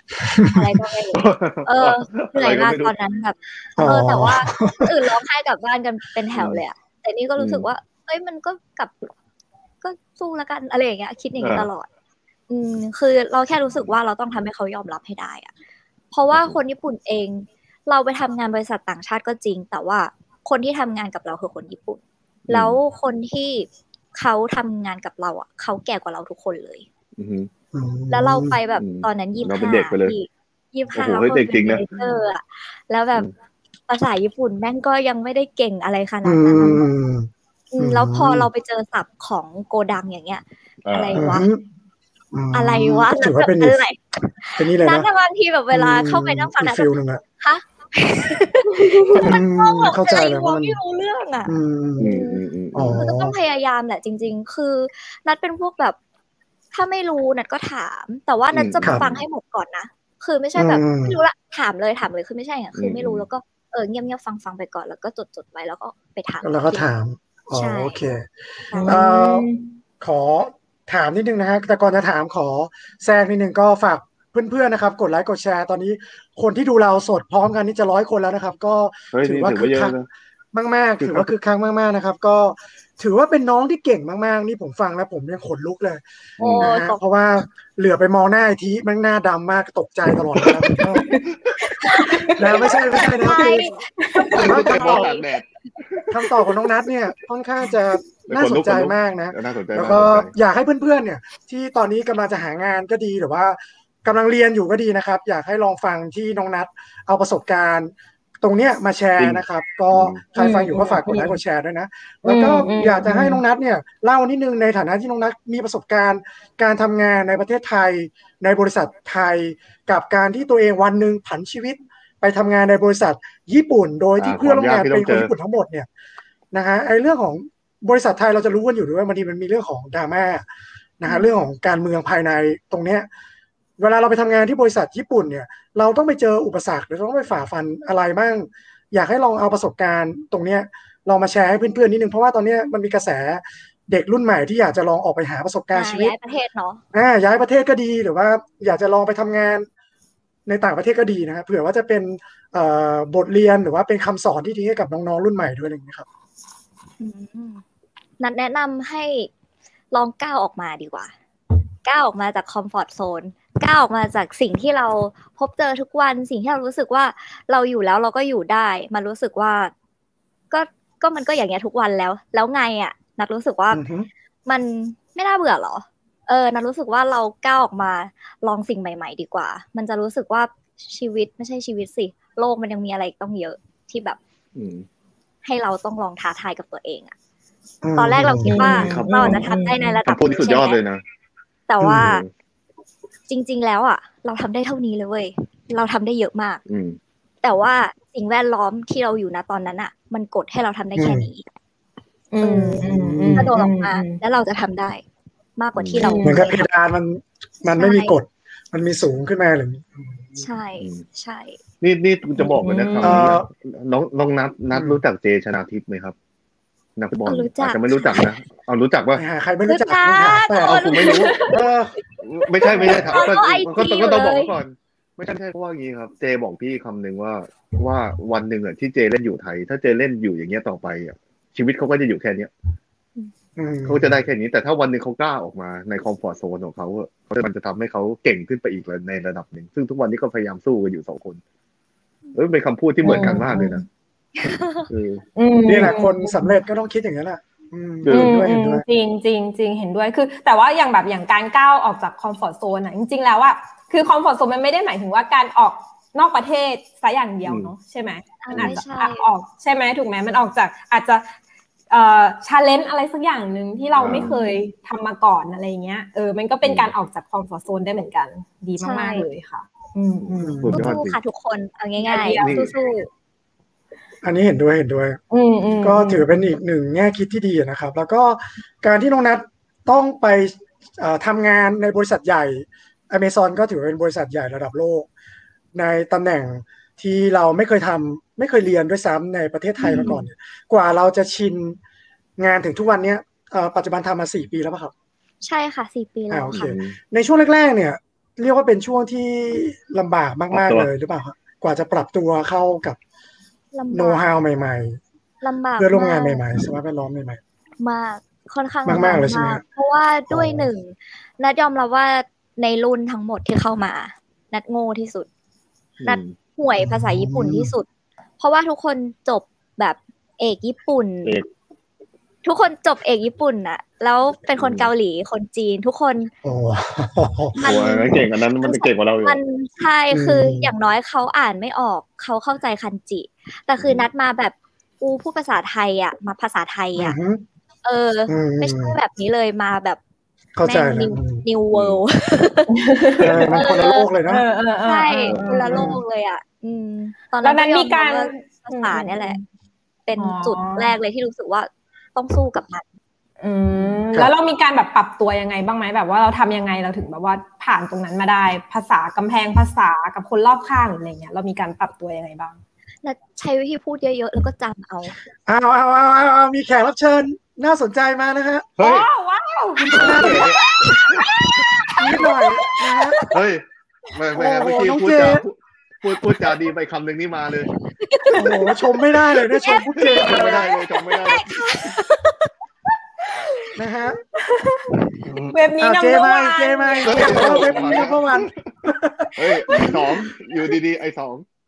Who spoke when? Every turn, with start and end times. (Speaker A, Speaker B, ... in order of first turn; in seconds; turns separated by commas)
Speaker A: 0.2-0.7, Speaker B: 0.5-9.1, Speaker C: 1.1-2.9, Speaker A: 3.8-5.1, Speaker C: 6.3-6.6, Speaker C: 7.4-7.7, Speaker B: 9.8-11.9, Speaker C: 11.4-11.7, Speaker B: 12.5-15.5, Speaker B: 16.1-26.9, Speaker C: 16.3-16.6, Speaker C: 22.5-22.8, Speaker C: 27.2-27.5, Speaker A: 27.7-28.6, Speaker B: 28.1-33.3, Speaker C: 28.8-30.1, Speaker C: 30.9-32.0, Speaker B: 33.9-36.8, Speaker A: 36.2-38.5, Speaker B: 37.7-41.5, Speaker C: 40.8-41.4, Speaker A: 41.1-41.6, Speaker A: 42.3-43.8, Speaker B: 42.5-52.4, Speaker A: 44.5-45.1, Speaker A: 45.7-47.2, Speaker D: 48.7-49.2, Speaker A: 49.2-50.8, Speaker A: 51.5-52.1, Speaker C: 52.0-53.1, Speaker A: 52.7-53.4, Speaker B: 52.9-56.0, Speaker B: 56.7-66.9, Speaker C: 58.5-59.2, Speaker A: 58.8-59.1, Speaker A: 60.5-61.2, Speaker C: 62.8-63.2, Speaker A: 66.4-68.3, Speaker B: 67.5-68.0, Speaker B: 68.7-69.0, Speaker D: 68.7-69.7, Speaker A: 68.8-69.5, Speaker A: 70.0-79.9, Speaker C: 79.1-80.1, Speaker A: 80.5-91.1, Speaker C: 81.0-81.3, Speaker C: 86.4-86.7, Speaker B: 86.4-87.0, Speaker D: 90.9-93.4, Speaker B: 91.8-95.3, Speaker A: 92.4-93.6, Speaker D: 94.0-94.6, Speaker C: 94.3-96.2, Speaker A: 94.3-95.1, Speaker A: 96.1-125.9, Speaker C: 98.3-100.3, Speaker C: 109.2-110.2, Speaker D: 110.3-111.4, Speaker D: 112.2-113.4, Speaker C: 124.2-125.3, Speaker A: 126.5-130.4, Speaker A: 131.0-133.1, Speaker A: 133.8-146.1, Speaker B: 145.7-146.8, Speaker A: 146.9-149.7, Speaker A: 150.4-156.1, Speaker B: 157.0-157.6, Speaker B: 158.2-159.3, Speaker B: 159.9-161.1, Speaker B: 161.8-169.7, Speaker B: 170.5-173.8, Speaker A: 173.7-174.1, Speaker B: 174.4-184.2, Speaker C: 184.6-184.8, Speaker B: 185.4-187.1, Speaker A: 187.8-188.8, Speaker B: 187.9-190.8, Speaker D: 188.4-190.0, Speaker C: 188.6-189.5, Speaker C: 190.1-191.0, Speaker B: 191.7-192.2, Speaker A: 191.8-192.1, Speaker C: 191.8-192.3, Speaker B: 193.3-196.6, Speaker C: 196.7-197.0, Speaker B: 197.4-201.4, Speaker A: 200.9-201.3, Speaker D: 202.3-204.2, Speaker A: 202.4-203.5, Speaker B: 203.3-205.0, Speaker B: 205.6-206.6, Speaker C: 205.7-206.1, Speaker D: 206.0-206.5, Speaker A: 206.2-210.4, Speaker B: 207.7-208.2, Speaker B: 210.4-211.6, Speaker C: 210.8-211.0, Speaker C: 211.8-216.1, Speaker D: 212.6-213.3, Speaker A: 213.0-213.5, Speaker A: 214.7-215.0, Speaker C: 217.0-219.2, Speaker B: 217.2-218.3, Speaker A: 219.2-220.9, Speaker B: 219.7-221.6, Speaker C: 220.6-221.4, Speaker D: 221.0-221.4, Speaker A: 221.4-221.9, Speaker C: 222.2-232.5, Speaker B: 222.6-224.5, Speaker A: 222.7-223.2, Speaker A: 233.6-234.1, Speaker C: 233.8-241.4, Speaker C: 242.3-243.8, Speaker D: 243.0-243.8, Speaker B: 244.4-244.9, Speaker C: 244.9-245.2, Speaker D: 245.4-246.5, Speaker A: 245.7-248.8, Speaker C: 248.0-248.4, Speaker D: 248.1-261.2, Speaker C: 257.4-257.7, Speaker B: 258.4-259.2, Speaker C: 258.5-258.8, Speaker D: 261.9-270.7, Speaker C: 263.9-264.3, Speaker C: 266.6-266.9, Speaker B: 268.8-269.2, Speaker C: 270.2-271.2, Speaker A: 270.4-270.9, Speaker B: 270.7-273.1, Speaker D: 272.0-272.7, Speaker C: 272.4-272.7, Speaker A: 274.2-275.2, Speaker D: 275.3-276.2, Speaker A: 275.8-285.1, Speaker A: 285.7-291.8, Speaker C: 289.8-290.2, Speaker A: 292.4-294.9, Speaker B: 295.4-296.7, Speaker A: 296.3-303.0, Speaker C: 296.5-296.9, Speaker C: 300.5-300.9, Speaker B: 303.7-304.2, Speaker A: 303.9-305.0, Speaker B: 305.4-306.4, Speaker A: 305.8-307.4, Speaker B: 307.8-315.3, Speaker A: 308.9-309.6, Speaker A: 310.3-310.6, Speaker C: 316.0-316.4, Speaker B: 316.0-317.9, Speaker A: 316.8-317.7, Speaker B: 318.4-321.3, Speaker B: 322.4-326.3, Speaker C: 324.6-324.9, Speaker A: 326.4-327.8, Speaker C: 327.6-329.4, Speaker B: 327.6-337.1, Speaker A: 330.1-330.7, Speaker C: 333.8-334.1, Speaker A: 336.9-337.4, Speaker B: 337.8-340.0, Speaker A: 338.3-339.0, Speaker A: 340.6-341.4, Speaker B: 340.6-342.8, Speaker C: 341.7-342.0, Speaker D: 342.7-343.7, Speaker A: 343.2-344.4, Speaker B: 343.5-344.1, Speaker D: 344.3-345.9, Speaker B: 344.8-349.4, Speaker C: 345.3-345.6, Speaker A: 345.7-346.0, Speaker D: 347.4-349.4, Speaker B: 350.0-352.8, Speaker D: 350.2-350.9, Speaker D: 353.4-362.6, Speaker B: 363.0-365.1, Speaker A: 365.4-368.8, Speaker C: 368.8-369.1, Speaker D: 368.8-372.5, Speaker A: 369.8-370.6, Speaker C: 369.9-371.3, Speaker A: 372.0-373.2, Speaker C: 373.3-377.7, Speaker A: 374.3-375.4, Speaker B: 378.0-378.5, Speaker A: 378.3-380.7, Speaker B: 379.6-382.1, Speaker C: 379.9-381.7, Speaker D: 383.2-383.7, Speaker A: 383.7-384.2, Speaker D: 384.4-385.0, Speaker A: 385.2-389.5, Speaker C: 385.3-385.5, Speaker D: 385.5-388.1, Speaker C: 387.0-388.5, Speaker C: 389.3-391.4, Speaker D: 389.7-390.1